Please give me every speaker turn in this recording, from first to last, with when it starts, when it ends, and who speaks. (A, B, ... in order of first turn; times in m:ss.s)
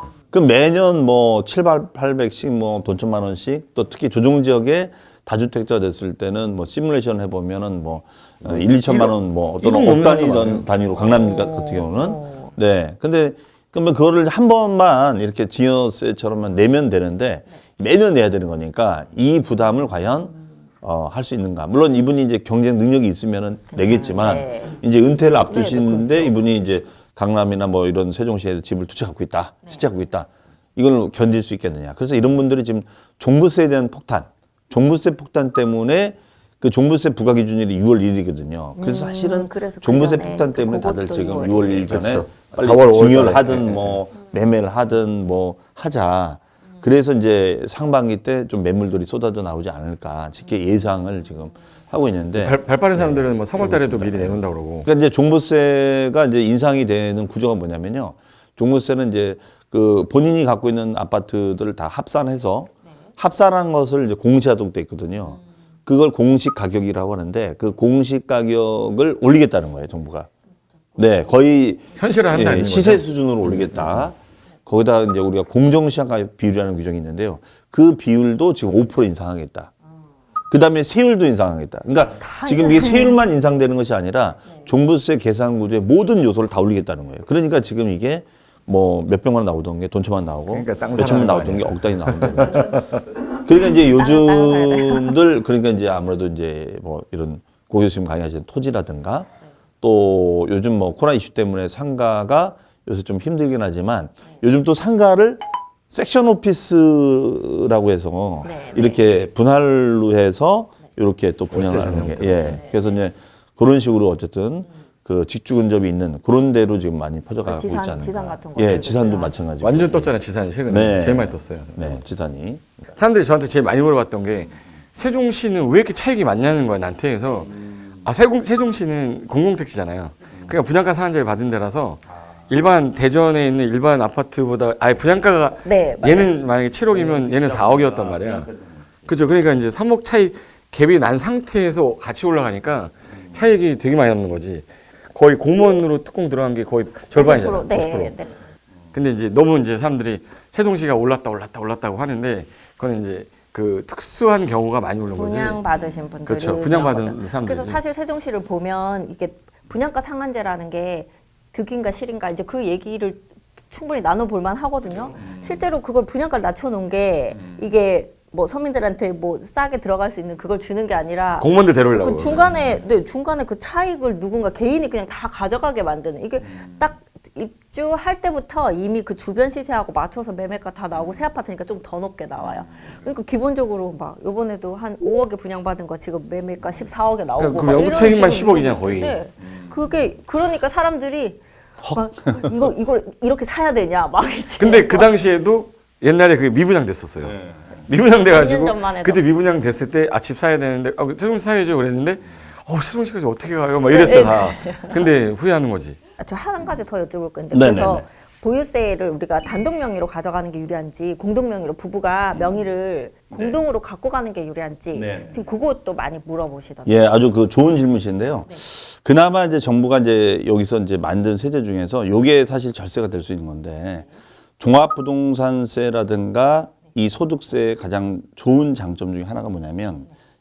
0:00.3-1:10.3 A
0:08.4-0:10.7 B
0:11.0-0:12.5 C
0:23.7-0:24.8 C
0:25.5-0:26.3 C
0:38.8-0:41.9 C
0:41.9-0:44.0 B
0:52.4-0:54.9 B
1:11.0-1:19.7 A
1:12.0-1:13.0 B
1:20.5-1:39.3 A
1:22.2-1:23.2 C
1:30.5-1:33.0 B
1:33.7-1:35.2 C
1:39.8-2:00.1 A
1:48.4-1:49.0 C
1:51.5-1:52.6 B
1:57.5-1:59.3 C
1:59.6-2:01.9 B
2:00.7-2:02.8 A
2:03.0-2:18.5 B
2:15.6-2:16.3 C
2:16.9-2:18.2 A
2:19.1-2:28.1 B
2:27.1-2:28.3 C
2:28.9-2:35.6 B
2:35.1-3:15.1 C
2:36.3-2:37.8 B
2:51.4-2:52.4 B
3:07.4-3:09.2 B
3:14.6-3:26.0 B
3:18.3-3:19.2 C
3:23.9-3:25.1 C
3:26.2-3:37.1 C
3:27.5-3:28.1 A
3:33.3-3:33.6 A
3:34.9-3:35.3 A
3:36.9-3:44.1 A
3:44.6-3:50.1 A